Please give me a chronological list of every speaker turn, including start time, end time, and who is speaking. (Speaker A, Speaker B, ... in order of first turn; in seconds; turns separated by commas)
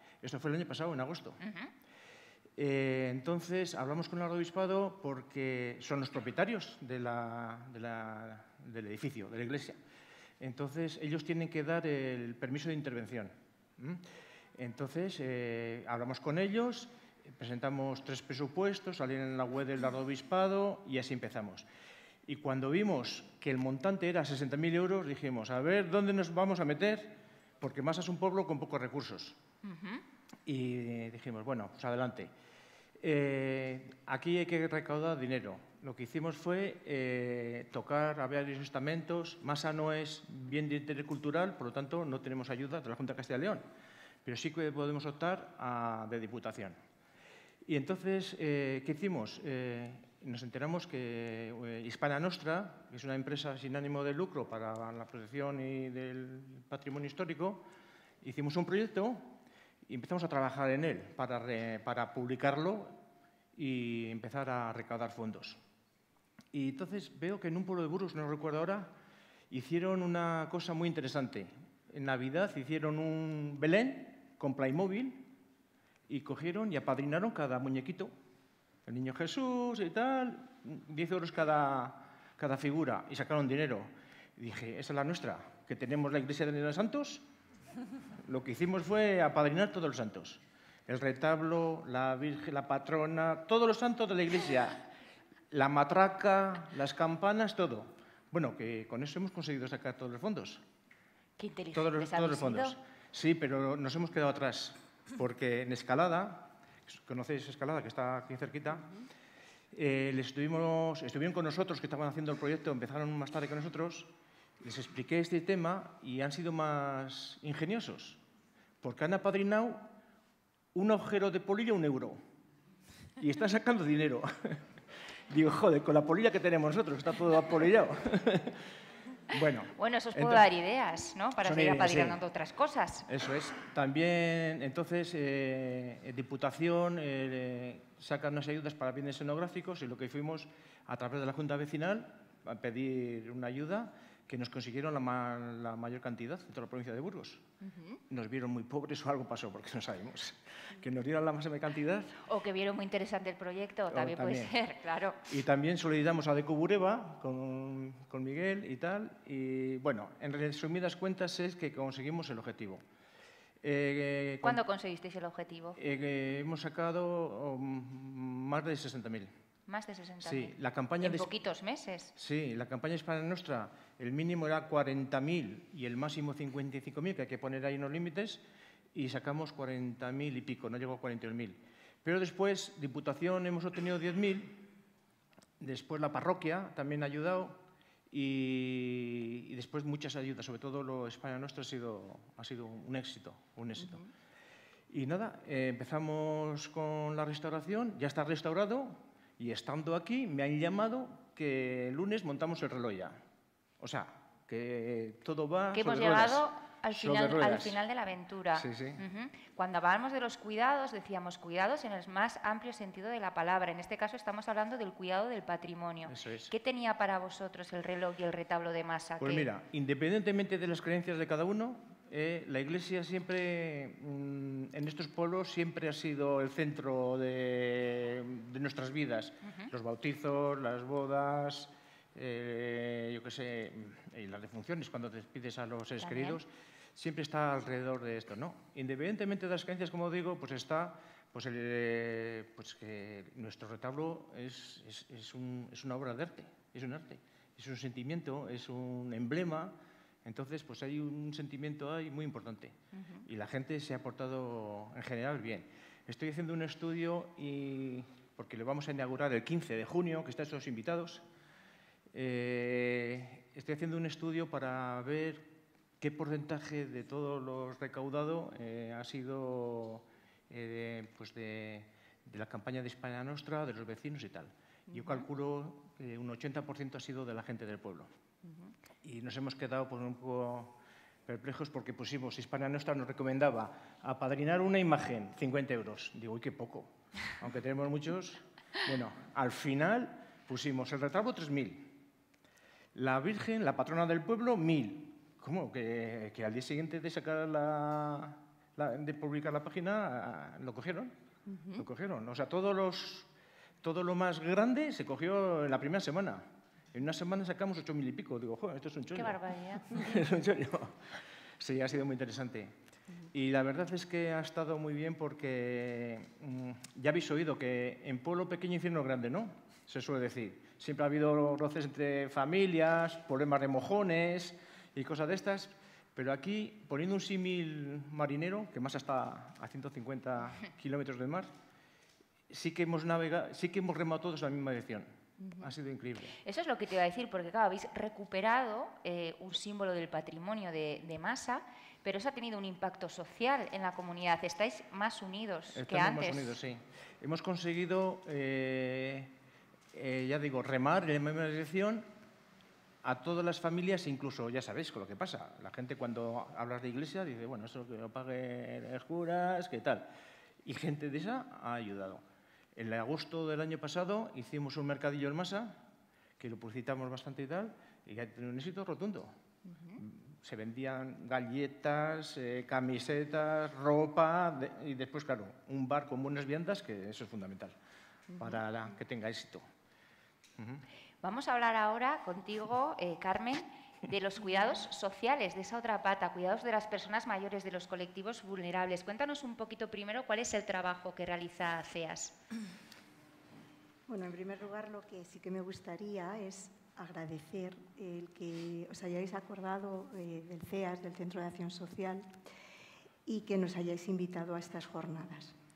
Speaker A: 0.2-1.4, Speaker B: 1.4-1.7, Speaker A: 2.6-9.8, Speaker A: 10.4-14.0, Speaker A: 14.6-21.7, Speaker A: 22.3-29.4, Speaker B: 29.6-30.0, Speaker A: 30.5-32.3, Speaker A: 33.0-43.6, Speaker A: 44.2-46.8, Speaker A: 47.7-57.6, Speaker A: 58.2-59.3, Speaker A: 59.9-62.9, Speaker A: 63.6-65.6, Speaker A: 66.5-68.9, Speaker A: 69.5-75.3, Speaker A: 76.1-78.1, Speaker A: 78.9-87.2, Speaker A: 88.2-94.8, Speaker A: 95.5-100.6, Speaker B: 101.4-102.8, Speaker A: 101.7-108.9, Speaker A: 109.7-118.2, Speaker A: 118.8-119.9, Speaker A: 120.8-122.2, Speaker A: 123.2-124.7, Speaker A: 125.3-128.6, Speaker A: 129.3-130.4, Speaker B: 129.8-133.1, Speaker A: 131.4-132.2, Speaker A: 133.1-147.4, Speaker B: 147.7-148.0, Speaker A: 148.1-152.2, Speaker B: 152.2-155.2, Speaker A: 153.9-154.5, Speaker A: 155.2-162.8, Speaker A: 163.6-164.6, Speaker B: 164.4-165.8, Speaker A: 165.8-169.3, Speaker B: 169.7-172.1, Speaker A: 170.2-171.3, Speaker A: 172.2-178.4, Speaker A: 178.9-184.7, Speaker A: 185.6-194.1, Speaker A: 194.9-203.2, Speaker A: 203.8-207.8, Speaker B: 205.7-219.5, Speaker A: 208.6-209.0, Speaker A: 216.1-216.5, Speaker A: 219.2-261.2, Speaker B: 236.0-236.4, Speaker A: 262.1-265.5, Speaker A: 266.0-278.1, Speaker A: 279.0-280.7, Speaker A: 281.3-291.9, Speaker A: 292.9-301.1, Speaker B: 301.5-301.8, Speaker A: 301.8-303.3, Speaker A: 303.8-311.1, Speaker B: 309.1-310.1, Speaker A: 311.6-312.8, Speaker A: 313.3-331.5, Speaker A: 332.5-336.4, Speaker B: 336.4-346.5, Speaker A: 345.8-349.3, Speaker A: 349.9-352.1, Speaker A: 353.0-360.1, Speaker A: 360.6-362.2, Speaker A: 362.8-365.8, Speaker A: 366.4-369.3, Speaker A: 369.9-377.8, Speaker A: 378.3-379.6, Speaker A: 380.6-380.8, Speaker B: 381.2-392.4, Speaker C: 394.1-402.3, Speaker C: 403.3-405.6